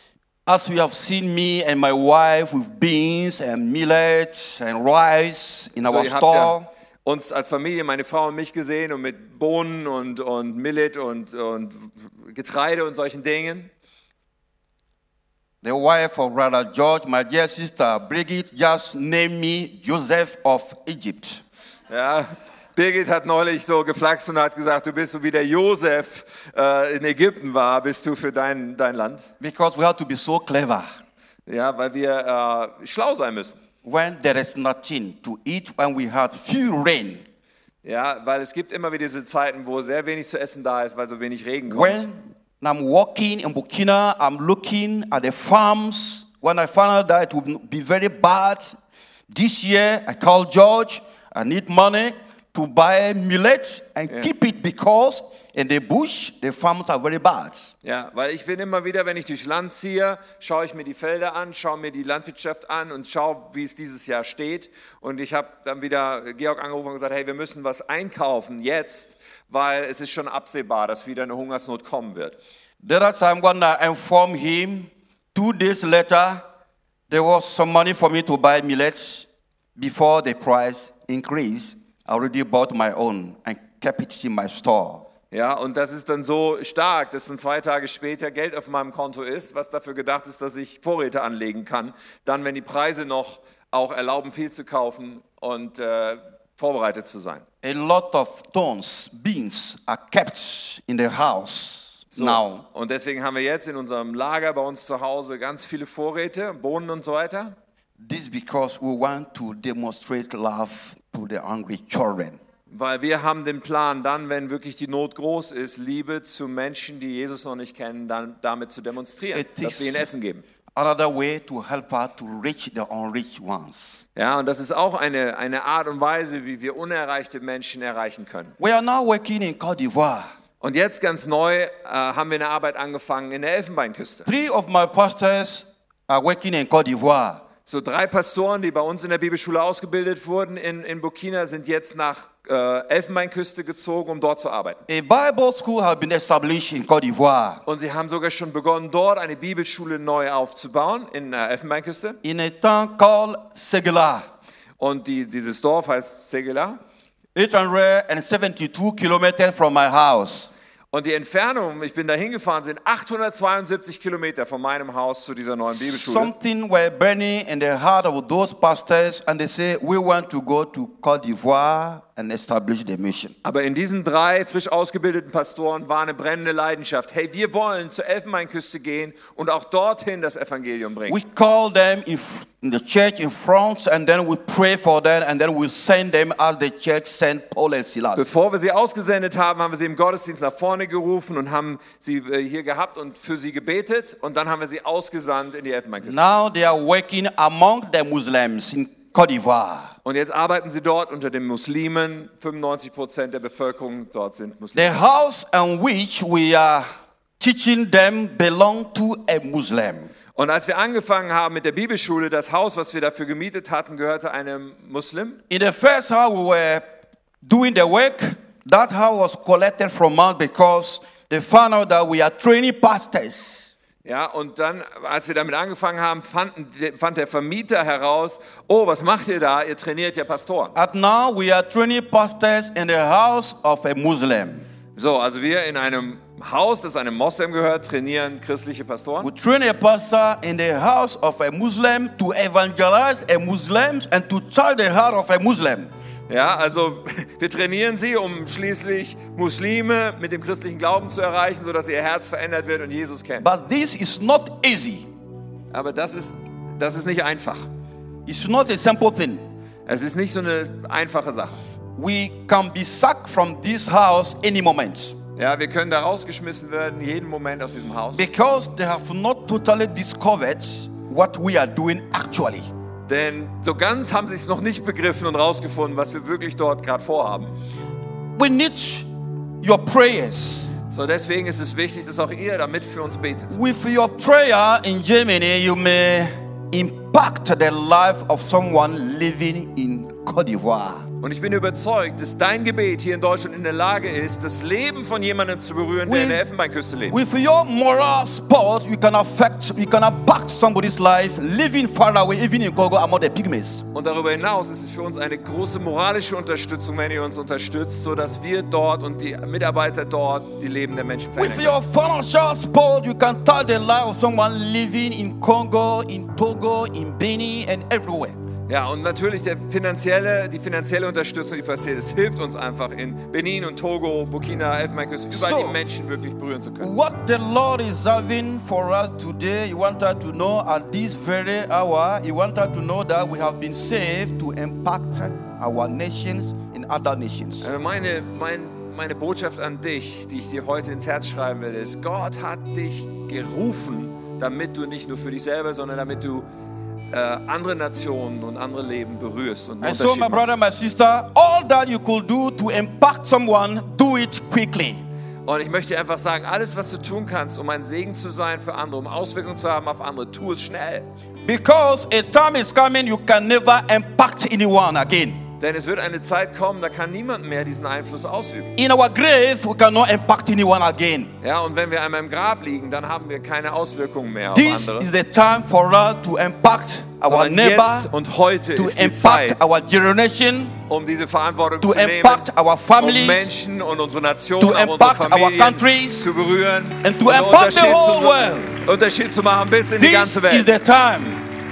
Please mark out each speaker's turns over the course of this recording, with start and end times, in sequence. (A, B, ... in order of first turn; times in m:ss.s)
0:00.4-0:06.7 A
0:05.8-0:13.7 B
0:15.6-0:21.4 A
0:21.9-0:29.3 B
0:29.4-0:30.8 A
0:31.5-0:33.6 B
0:33.8-0:37.2 A
0:37.8-0:42.0 B
0:41.7-0:48.8 A
0:49.3-0:57.7 A
0:57.8-1:12.4 B
1:12.8-1:16.4 A
1:17.1-1:25.0 A
1:25.3-1:37.4 B
1:37.6-1:42.6 A
1:42.1-1:47.5 B
1:48.0-1:52.4 A
1:52.7-2:00.4 B
1:59.3-2:00.0 A
2:00.7-2:04.0 A
2:04.2-2:08.5 B
2:08.6-2:10.3 A
2:10.6-2:14.3 B
2:14.2-2:17.4 A
2:17.6-2:24.8 B
2:24.9-2:27.6 A
2:27.6-2:32.2 B
2:32.2-2:34.3 A
2:34.8-2:36.8 B
2:37.3-2:40.5 A
2:40.9-2:46.3 B
2:45.8-2:53.3 A
2:53.4-3:01.2 B
3:01.1-3:08.3 A
3:08.2-3:16.2 B
3:16.0-3:19.9 A
3:20.0-3:25.0 B
3:24.7-3:26.8 A
3:27.4-3:30.1 A
3:30.4-3:35.4 B
3:35.5-3:36.8 A
3:37.4-3:43.7 A
3:44.0-3:50.7 B
3:50.7-3:54.6 A
3:55.0-3:59.3 B
3:59.2-4:05.9 A
4:06.3-4:13.5 B
4:13.4-4:15.1 A
4:15.7-4:17.6 B
4:18.2-4:19.4 A
4:19.8-4:21.6 B
4:22.0-4:25.2 A
4:25.4-4:28.3 B
4:28.1-4:32.7 A
4:33.1-4:37.5 B
4:38.3-4:39.1 A
4:39.6-4:40.7 A
4:40.9-4:43.5 B
4:43.5-4:51.1 A
4:51.2-4:57.2 B
4:56.0-4:56.4 A
4:57.1-5:03.8 A
5:03.9-5:11.8 B
5:11.4-5:18.4 A
5:18.7-5:26.9 B
5:25.3-5:25.8 A
5:26.8-5:37.7 A
5:37.6-5:46.4 B
5:47.1-5:50.6 B
5:49.8-5:55.0 A
5:55.4-6:01.0 B
6:01.4-6:05.4 A
6:05.6-6:08.7 B
6:08.8-6:11.3 A
6:11.4-6:15.1 B
6:14.5-6:18.1 A
6:17.2-6:19.6 B
6:18.7-6:20.8 A
6:20.9-6:22.5 B
6:21.8-6:23.5 A
6:23.0-6:30.8 B
6:24.6-6:26.3 A
6:27.0-6:28.8 A
6:30.0-6:31.4 A